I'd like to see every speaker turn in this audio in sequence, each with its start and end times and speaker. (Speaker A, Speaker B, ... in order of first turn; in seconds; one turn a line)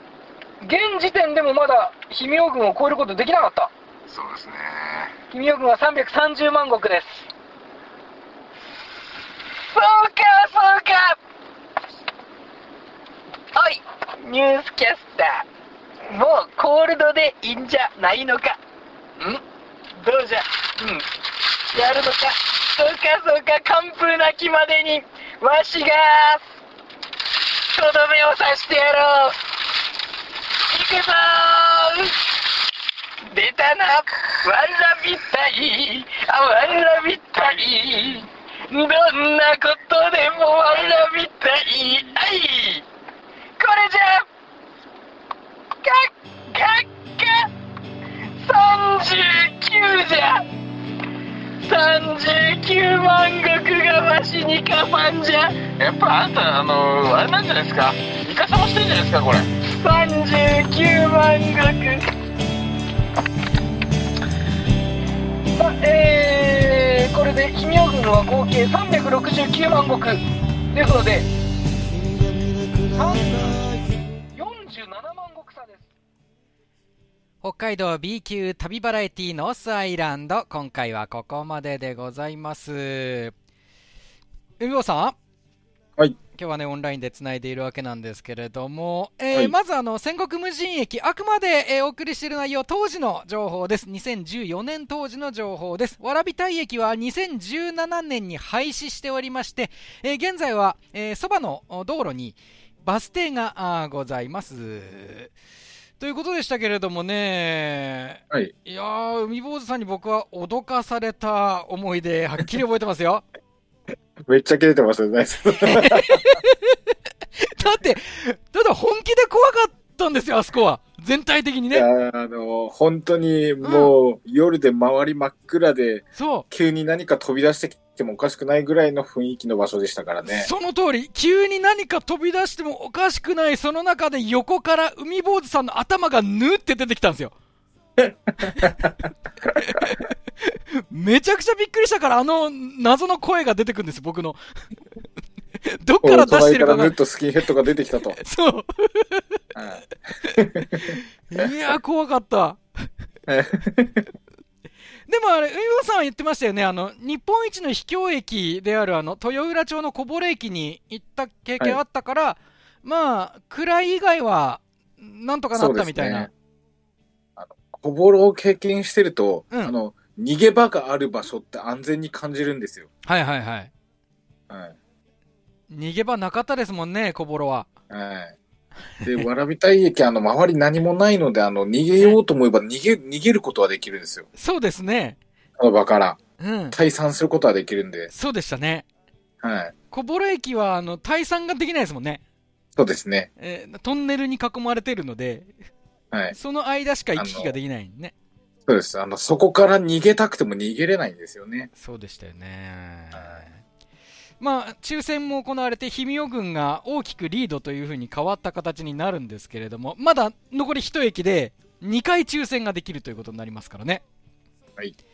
Speaker A: 0.6-3.7
Speaker B: 4.1-5.1
Speaker A: 5.3-7.3
Speaker A: 9.7-11.2
Speaker A: 13.5-15.4
Speaker A: 16.1-18.6
Speaker A: 19.9-21.1
Speaker A: 21.7-26.4
Speaker A: 27.4-29.4
Speaker A: 30.6-32.3
Speaker A: 33.2-42.8
Speaker B: 37.4-37.6
Speaker A: 43.6-44.3
Speaker A: 45.8-47.5
Speaker A: 48.3-50.5
Speaker A: 51.6-55.6
Speaker B: 55.8-59.5
Speaker A: 59.6-62.0
Speaker A: 65.5-71.3
Speaker A: 72.9-73.8
Speaker A: 74.3-75.9
Speaker C: 77.4-83.3
Speaker C: 84.6-85.2
Speaker C: 86.3-105.3
Speaker C: 106.0-113.2
Speaker D: 114.2-116.4
Speaker C: 115.6-116.8
Speaker C: 117.4-121.8
Speaker D: 121.7-130.5
Speaker C: 123.6-123.9
Speaker C: 126.2-126.5
Speaker C: 130.2-137.3
Speaker D: 138.0-138.9
Speaker C: 138.6-138.9
Speaker C: 139.5-144.4
Speaker C: 145.6-146.9
Speaker D: 146.0-148.2
Speaker C: 148.2-149.4
Speaker D: 149.5-149.8
Speaker C: 150.2-152.6
Speaker D: 150.3-151.4
Speaker D: 153.3-154.1
Speaker C: 155.1-166.3
Speaker D: 165.5-166.3
Speaker D: 167.4-172.9
Speaker C: 173.0-173.7
Speaker D: 174.5-174.8
Speaker C: 175.7-177.7
Speaker D: 177.9-178.3
Speaker D: 179.0-184.3
Speaker C: 184.3-185.2
Speaker D: 185.6-186.2
Speaker C: 186.4-186.8
Speaker D: 186.7-188.1
Speaker C: 188.1-188.8
Speaker D: 189.4-189.7
Speaker C: 189.9-192.2
Speaker D: 192.8-193.3
Speaker C: 193.4-195.5
Speaker C: 196.3-198.1
Speaker D: 197.2-197.5
Speaker D: 198.7-201.7
Speaker C: 201.8-203.6
Speaker C: 204.4-214.0